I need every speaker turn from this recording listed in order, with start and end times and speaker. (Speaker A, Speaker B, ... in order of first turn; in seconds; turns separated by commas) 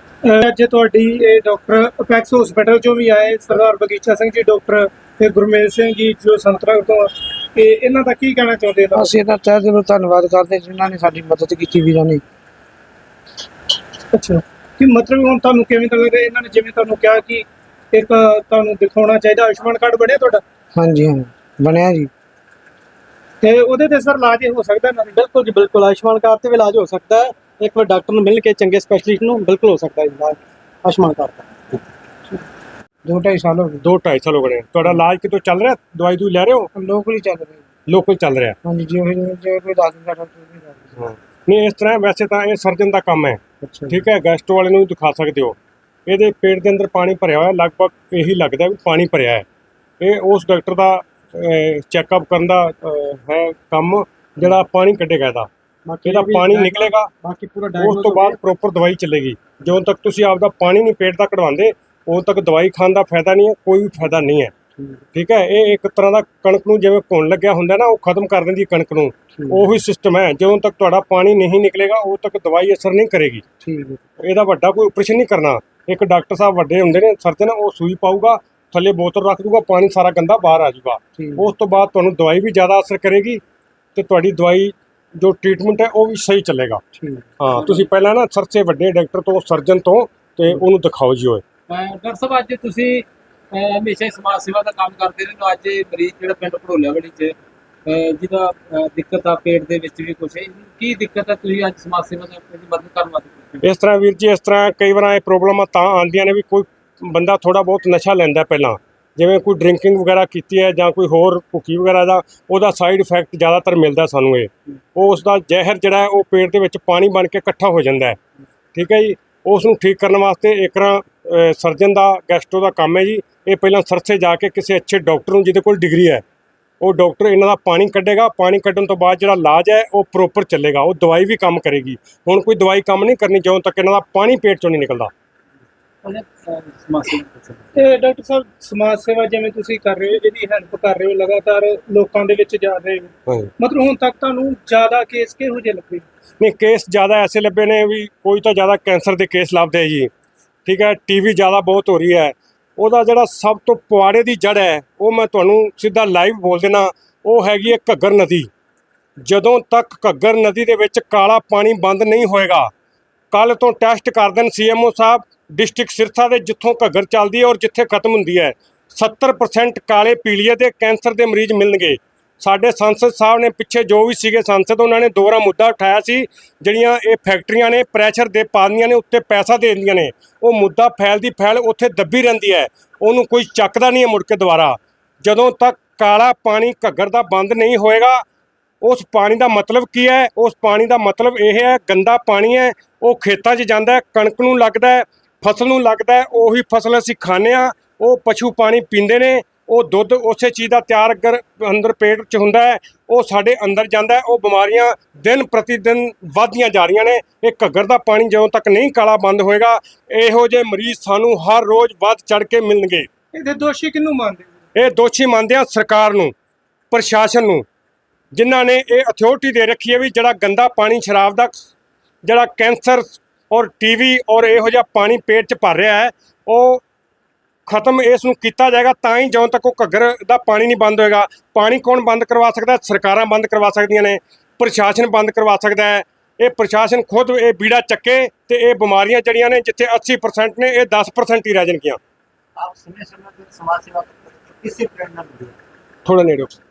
Speaker A: 0.2-9.1, Speaker B: 8.9-12.2, Speaker A: 14.1-20.4, Speaker B: 20.7-22.1, Speaker A: 23.4-25.1, Speaker C: 25.1-31.5, Speaker B: 33.0-33.8, Speaker D: 33.8-36.7, Speaker B: 36.7-37.6, Speaker D: 37.9-38.6, Speaker B: 38.6-41.0, Speaker D: 41.0-49.5, Speaker D: 50.0-55.5, Speaker C: 55.9-58.4, Speaker D: 56.1-57.1, Speaker D: 57.8-64.5, Speaker D: 65.1-73.5, Speaker B: 73.6-74.0, Speaker D: 74.2-83.4, Speaker B: 81.2-81.5, Speaker D: 84.0-86.8, Speaker D: 87.4-91.4, Speaker E: 87.5-87.9, Speaker E: 91.7-103.7, Speaker D: 103.6-118.2, Speaker D: 118.7-126.2, Speaker D: 126.8-135.1, Speaker E: 136.0-137.7, Speaker A: 137.8-146.1, Speaker D: 146.4-150.1, Speaker D: 150.7-158.5, Speaker D: 159.2-162.7, Speaker D: 163.3-188.2, Speaker D: 188.8-213.1, Speaker A: 213.3-214.5, Speaker D: 214.8-216.3, Speaker D: 216.9-217.7, Speaker D: 218.3-221.7, Speaker D: 222.2-226.8, Speaker D: 227.7-242.0, Speaker F: 242.6-245.5, Speaker D: 246.1-246.6